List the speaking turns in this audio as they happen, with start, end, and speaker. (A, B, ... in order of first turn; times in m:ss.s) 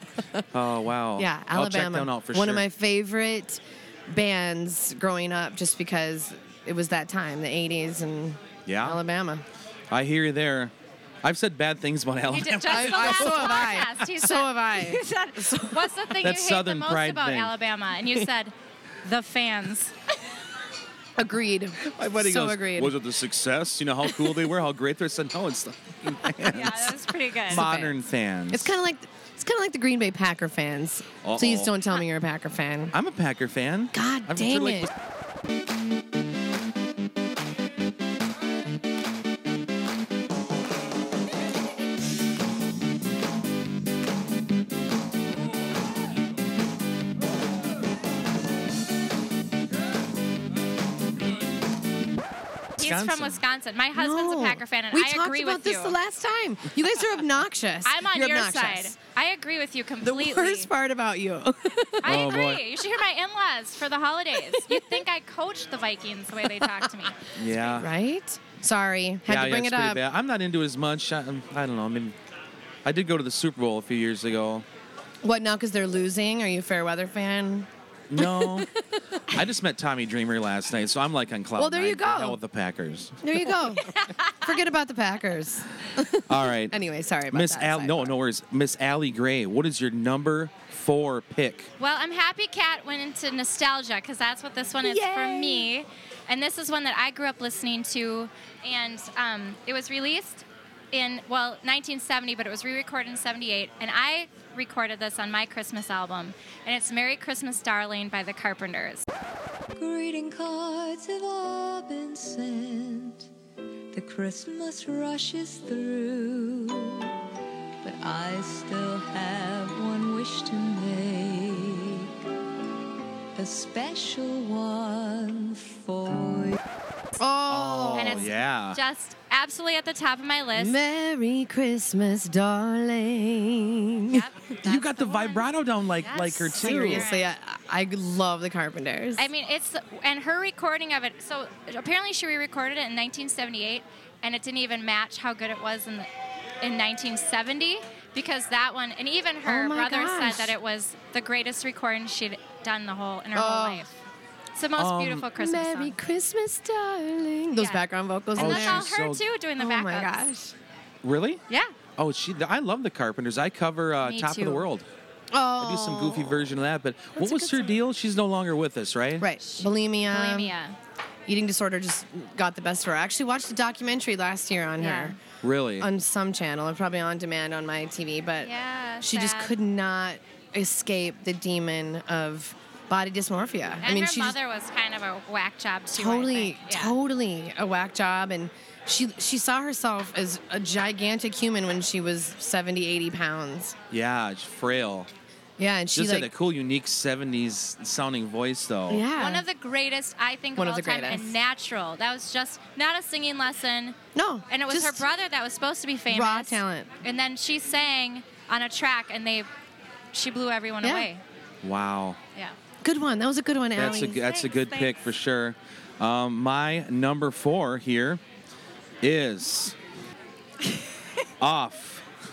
0:00.5-0:02.7 A
0:01.2-0:09.4 B
0:08.7-0:09.0 A
0:09.9-0:13.9 A
0:12.3-0:19.9 C
0:12.7-0:15.9 B
0:16.2-0:17.6 A
0:21.2-0:22.9 B
0:21.8-0:28.8 A
0:26.5-0:27.7 C
0:27.5-0:28.0 B
0:28.5-0:32.9 B
0:31.2-0:31.8 A
0:32.9-0:34.9 A
0:33.9-0:34.9 B
0:52.8-0:53.4 A
0:52.8-0:56.0 C
0:53.9-0:59.0 B
0:57.8-1:00.7 C
1:00.0-1:02.2 B
1:02.0-1:07.2 C
1:02.0-1:02.6 A
1:07.4-1:07.9 A
1:07.8-1:10.0 B
1:09.3-1:12.2 A
1:12.8-1:14.7 A
1:15.2-1:19.3 B
1:18.1-1:18.7 A
1:19.3-1:23.5 A
1:21.6-1:22.4 B
1:23.2-1:28.2 B
1:23.9-1:24.3 C
1:26.3-1:31.7 A
1:31.8-1:49.0 C
1:34.8-1:35.7 B
1:49.8-1:53.3 D
1:53.9-1:57.1 D
1:57.8-2:02.1 D
2:03.4-2:06.6 D
2:07.2-2:08.3 B
2:07.5-2:08.8 A
2:08.0-2:10.8 C
2:10.6-2:14.3 B
2:14.1-2:17.3 C
2:14.6-2:17.1 A
2:16.6-2:19.3 B
2:19.2-2:26.1 C
2:26.6-2:33.9 C
2:29.4-2:30.5 B
2:33.3-2:33.9 B
2:34.6-2:35.9 C
2:34.8-2:35.3 A
2:35.4-2:38.8 B
2:37.6-2:37.8 C
2:38.4-2:40.3 C
2:38.4-2:39.2 A
2:39.6-2:40.5 B
2:41.0-2:41.4 A
2:42.0-2:44.9 A
2:44.0-2:44.7 C
2:45.3-2:46.5 B
2:45.6-2:49.2 A
2:47.2-2:47.8 B
2:49.2-2:50.5 B
2:49.4-2:50.8 C
2:51.3-2:55.2 B
2:54.8-2:55.2 C
2:55.4-2:55.9 A
2:55.8-3:04.4 B
2:58.4-2:59.6 C
3:03.8-3:06.9 C
3:05.9-3:13.8 B
3:13.9-3:15.1 A
3:15.6-3:16.3 B
3:15.9-3:19.1 A
3:18.9-3:19.4 B
3:19.2-3:24.0 C
3:20.6-3:21.3 B
3:24.2-3:25.0 B
3:24.5-3:29.5 C
3:26.1-3:26.9 B
3:30.1-3:31.2 C
3:30.8-3:31.1 B
3:31.6-3:32.2 A
3:32.8-3:34.2 B
3:33.8-3:38.2 A
3:33.9-3:35.0 C
3:39.0-3:39.8 A
3:41.4-3:42.1 A